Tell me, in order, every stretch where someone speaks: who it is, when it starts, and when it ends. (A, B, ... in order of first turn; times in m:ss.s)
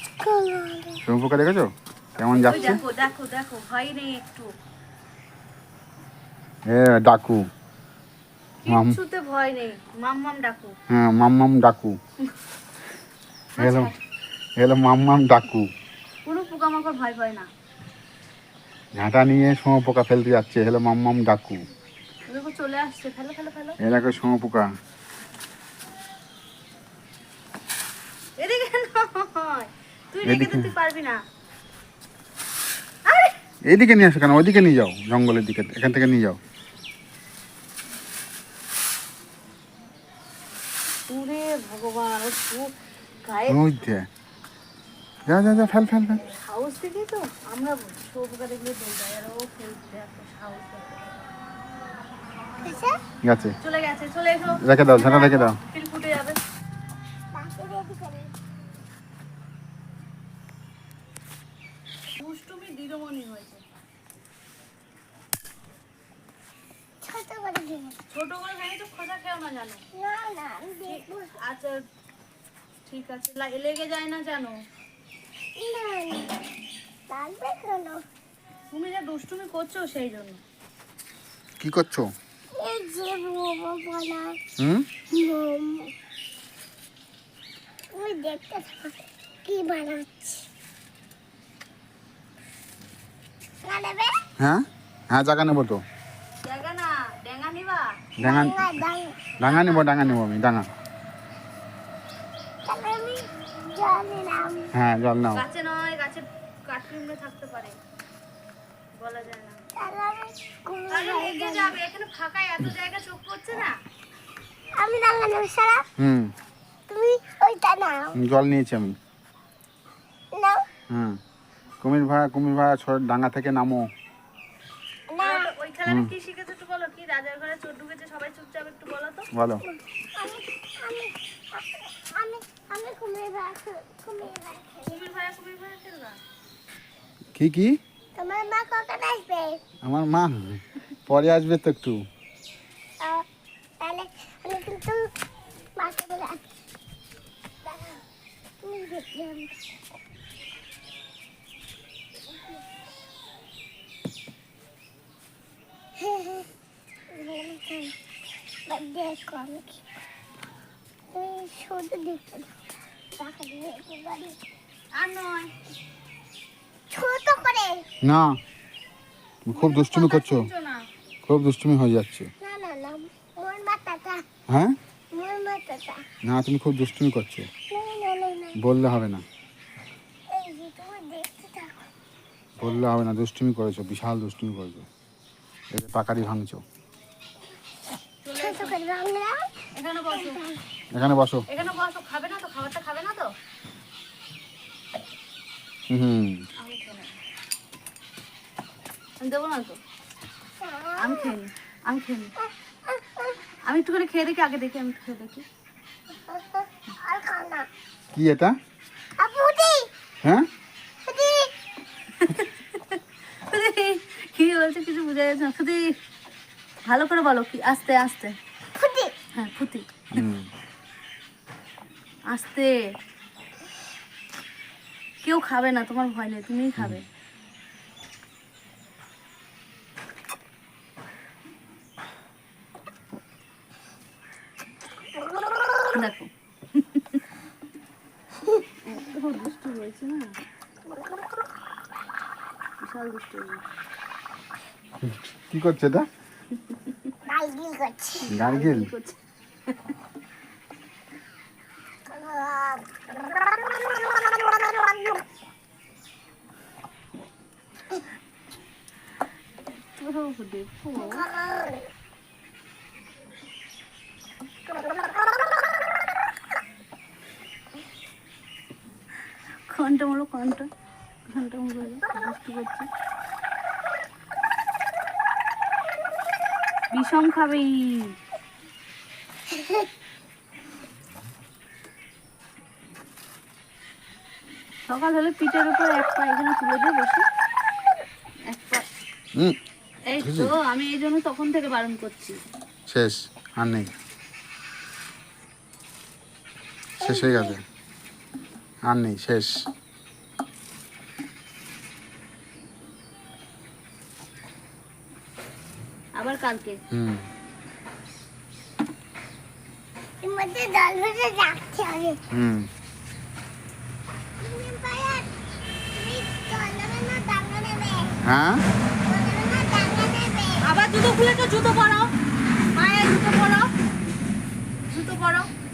0:00.1-0:01.0 A
0:01.1-0:02.8 B
0:02.3-0:04.5 C
0:02.4-0:02.8 A
0:06.6-0:07.5 B
0:08.6-0:10.7 C
0:08.7-0:09.0 B
0:10.9-0:12.0 B
0:13.6-0:14.0 C
0:13.6-0:13.9 B
0:14.6-0:15.7 B
0:16.2-0:17.5 C
0:18.9-0:21.6 B
0:22.3-0:23.8 C
0:23.8-0:24.7 B
0:28.4-0:31.2 C
0:30.2-0:30.7 B
0:33.0-0:33.3 C
0:33.6-0:36.4 B
0:41.1-0:42.7 C
0:43.2-0:43.6 C
0:43.5-0:44.1 B
0:45.2-0:46.2 B
0:46.3-0:51.1 C
0:52.6-0:53.0 A
0:53.2-0:53.6 B
0:53.6-0:56.4 C
0:54.6-0:55.6 B
0:57.3-0:58.3 A
1:02.2-1:03.6 C
1:07.0-1:08.0 A
1:08.1-1:09.8 C
1:09.9-1:11.3 A
1:10.8-1:11.8 C
1:12.8-1:14.6 C
1:15.6-1:16.4 A
1:17.1-1:18.0 A
1:18.7-1:20.4 C
1:21.6-1:22.1 B
1:22.6-1:24.4 A
1:24.6-1:24.8 B
1:25.1-1:25.9 A
1:27.9-1:30.5 A
1:33.6-1:34.2 A
1:34.4-1:35.8 B
1:36.4-1:38.0 C
1:38.2-1:38.8 B
1:38.2-1:39.2 A
1:39.4-1:40.2 C
1:39.4-1:40.7 B
1:42.6-1:44.7 A
1:44.7-1:45.4 B
1:45.3-1:47.8 C
1:49.0-1:49.6 C
1:49.8-1:51.8 A
1:50.9-1:53.8 C
1:54.8-1:55.8 A
1:56.0-1:56.3 B
1:56.9-1:58.2 A
1:58.2-1:59.0 B
2:00.3-2:00.6 A
2:00.9-2:01.2 B
2:01.8-2:03.9 B
2:05.1-2:05.5 A
2:05.2-2:09.3 C
2:05.8-2:06.1 B
2:09.3-2:09.6 B
2:09.6-2:15.0 A
2:14.8-2:16.2 C
2:17.3-2:17.8 B
2:18.2-2:19.6 A
2:19.8-2:22.0 B
2:23.8-2:25.1 A
2:25.8-2:26.4 A
2:27.6-2:28.0 A
2:28.6-2:29.5 A
2:36.0-2:36.5 A
2:37.1-2:37.9 A
2:38.6-2:39.8 A
2:41.1-2:42.5 A
2:43.1-2:44.4 A
2:44.9-2:45.5 C
2:46.9-2:47.8 A
2:48.0-2:48.4 B
2:49.4-2:50.5 B
2:49.5-2:50.8 C
2:51.2-2:52.3 B
2:52.4-2:54.2 A
2:54.5-2:54.8 B
2:55.1-2:56.0 A
2:56.2-2:57.5 B
2:57.7-2:58.6 A
2:58.6-2:59.2 B
3:00.3-3:01.8 A
3:02.6-3:04.8 B
3:05.7-3:06.6 B
3:08.2-3:08.8 C
3:08.4-3:09.4 A
3:09.7-3:10.4 C
3:10.1-3:10.6 A
3:10.9-3:11.4 B
3:11.5-3:13.3 C
3:15.9-3:16.4 B
3:16.6-3:17.2 C
3:19.2-3:19.8 C
3:20.6-3:21.3 A
3:21.0-3:22.3 C
3:22.4-3:23.4 A
3:23.6-3:25.4 C
3:26.3-3:27.7 A
3:28.1-3:28.5 B
3:29.2-3:29.9 A
3:31.0-3:31.5 A
3:32.2-3:36.0 C
3:36.8-3:38.4 C
3:38.8-3:39.1 A
3:39.3-3:40.2 C
3:40.1-3:40.5 B
3:42.3-3:42.8 C
3:45.2-3:47.0 C
3:55.9-3:57.2 C
3:58.8-4:00.3 C
4:02.8-4:03.6 C
4:05.0-4:06.1 B
4:07.3-4:08.3 A
4:08.2-4:09.2 C
4:08.3-4:08.9 B
4:12.1-4:12.8 A
4:20.0-4:21.2 C
4:20.9-4:21.8 A
4:29.7-4:30.7 C
4:31.3-4:32.9 C
4:36.9-4:38.1 C
4:39.5-4:39.8 A
4:44.9-4:47.2 C
4:48.5-4:48.8 C
4:50.1-4:52.4 C
4:50.2-4:50.5 B
4:52.9-4:53.9 B
4:57.0-4:57.6 A
4:57.0-4:57.6 B
4:58.9-4:59.5 B
5:06.1-5:06.8 C
5:06.9-5:07.2 B
5:10.2-5:12.2 A
5:12.3-5:12.7 B
5:14.4-5:15.3 A
5:15.9-5:18.2 A
5:18.2-5:18.6 B
5:19.0-5:20.6 A
5:20.6-5:22.1 C
5:22.7-5:23.7 C
5:24.9-5:25.5 C